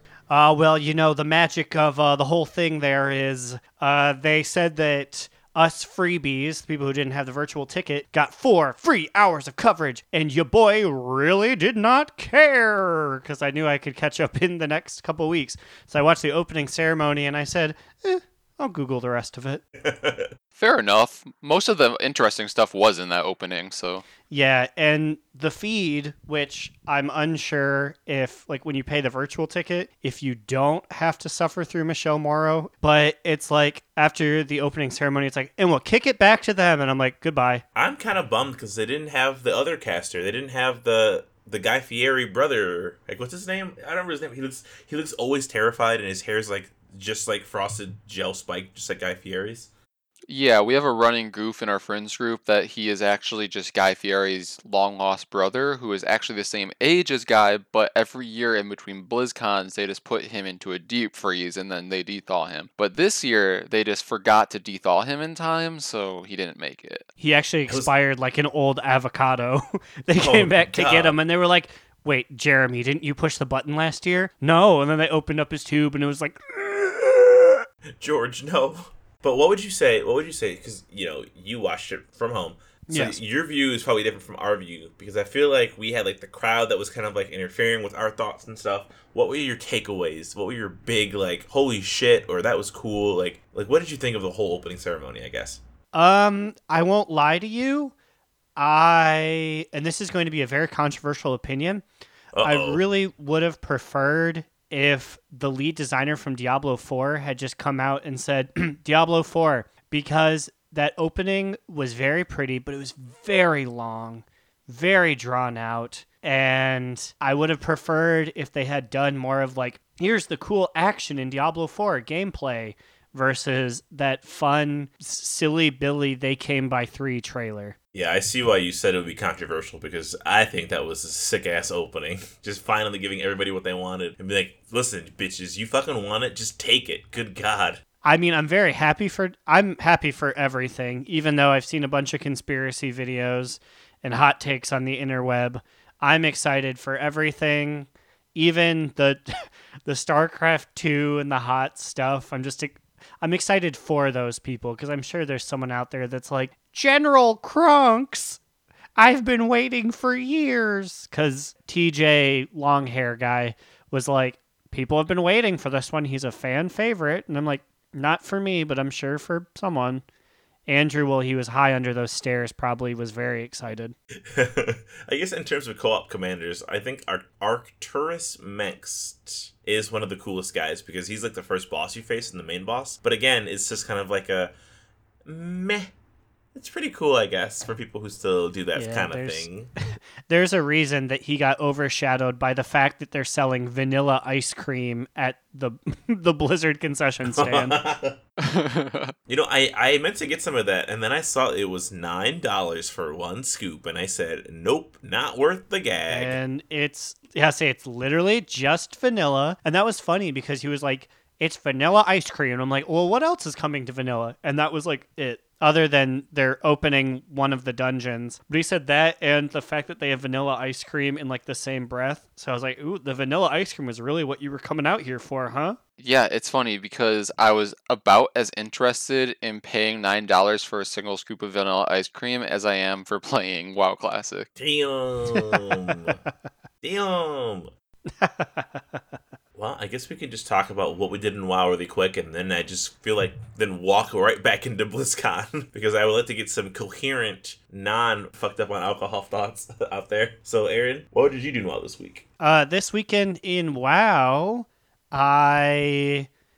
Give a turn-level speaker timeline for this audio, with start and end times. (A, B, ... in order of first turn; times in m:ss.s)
0:00.3-0:19.6 A
0:19.8-0:20.3 B
0:20.6-0:24.0 C
0:24.3-0:37.6 A
0:37.8-0:49.7 B
0:50.3-1:07.1 C
1:07.2-1:17.6 A
1:10.2-1:11.2 B
1:18.0-1:35.6 B
1:22.9-1:23.2 A
1:35.9-1:37.9 A
1:38.6-1:41.8 A
1:42.3-1:42.8 B
1:42.4-2:07.8 A
2:07.9-2:17.8 B
2:18.0-2:29.2 A
2:29.9-2:38.4 A
2:39.0-2:50.0 A
2:50.7-2:54.0 A
2:54.3-3:04.5 B
3:05.3-3:05.9 B
3:06.6-3:09.7 B
3:08.8-3:09.5 A
3:10.3-3:17.8 A
3:17.2-3:18.2 B
3:18.4-3:19.1 C
3:19.3-3:26.4 B
3:26.1-3:45.8 A
3:46.0-3:54.5 C
3:54.6-3:56.2 B
3:56.8-3:57.7 B
3:58.2-3:59.0 A
3:59.6-4:12.2 B
4:12.4-4:16.3 A